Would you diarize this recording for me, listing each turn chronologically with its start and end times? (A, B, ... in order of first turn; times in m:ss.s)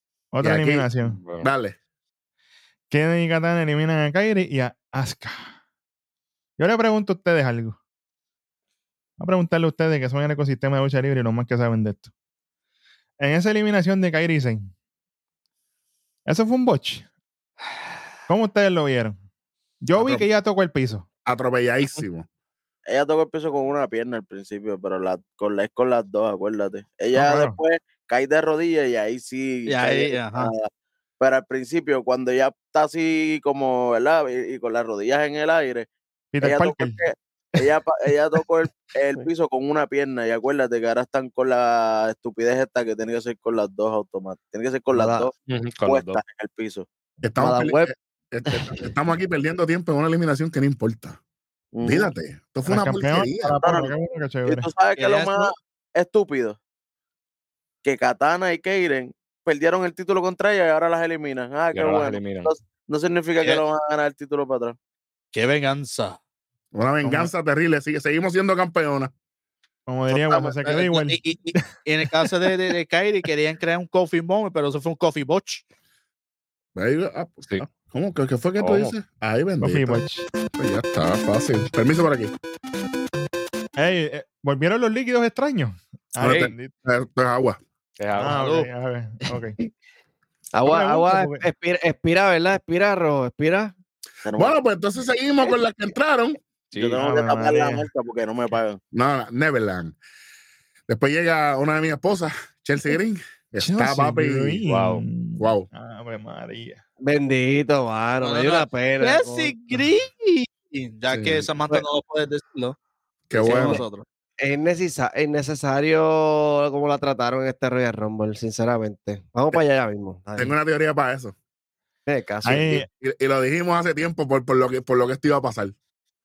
0:00.3-0:01.2 A
0:00.4-0:00.9 B
0:01.1-0:01.5 C
0:01.4-0:01.8 B
0:02.9-0:05.5 A
0:06.6-0:07.8 A
0:09.2-0:12.1 A
0:13.2-0:14.7 A
0:16.2-0:17.0 A
0:18.3-0:19.2 A
0:19.8-0:21.0 A
0:21.2-0:22.3 B
0:22.9-0:35.9 D
0:27.1-0:27.6 A
0:29.7-0:30.5 E
0:36.3-0:37.0 A
0:36.4-0:45.3 D
0:44.9-0:45.3 F
0:45.5-0:46.2 C
0:45.9-0:46.9 D
0:47.2-0:51.2 B
0:47.4-0:47.9 F
0:48.5-0:48.8 F
0:51.7-0:52.1 D
0:51.8-0:53.6 B
0:52.7-0:54.7 A
0:53.6-0:53.9 D
0:54.5-0:56.6 D
0:55.0-0:55.5 E
0:57.8-1:04.8 D
1:01.7-1:02.5 C
1:05.3-1:06.2 E
1:06.7-1:09.1 B
1:07.0-1:07.3 A
1:09.9-1:11.6 A
1:10.1-1:10.5 D
1:10.6-1:15.6 E
1:16.8-1:20.0 B
1:18.6-1:19.0 C
1:19.6-1:20.3 A
1:20.6-1:22.3 B
1:23.8-1:26.7 A
1:26.2-1:27.6 B
1:26.2-1:26.5 C
1:28.0-1:28.4 C
1:28.1-1:29.6 A
1:28.3-1:28.7 E
1:30.5-1:33.7 F
1:30.6-1:31.4 A
1:34.2-1:34.6 D
1:34.4-1:36.4 B
1:36.7-1:37.0 C
1:36.8-1:38.8 D
1:37.0-1:37.9 A
1:38.9-1:40.0 B
1:40.9-1:44.6 B
1:43.6-1:46.8 A
1:44.7-1:45.0 C
1:45.4-1:45.7 B
1:47.0-1:49.6 F
1:48.2-1:52.8 E
1:51.1-1:51.5 B
1:53.3-1:53.8 B
1:53.3-1:54.0 E
1:53.5-1:53.8 F
1:54.4-2:00.5 F
2:00.4-2:01.4 B
2:02.1-2:02.8 F
2:02.4-2:02.9 A
2:02.7-2:05.8 B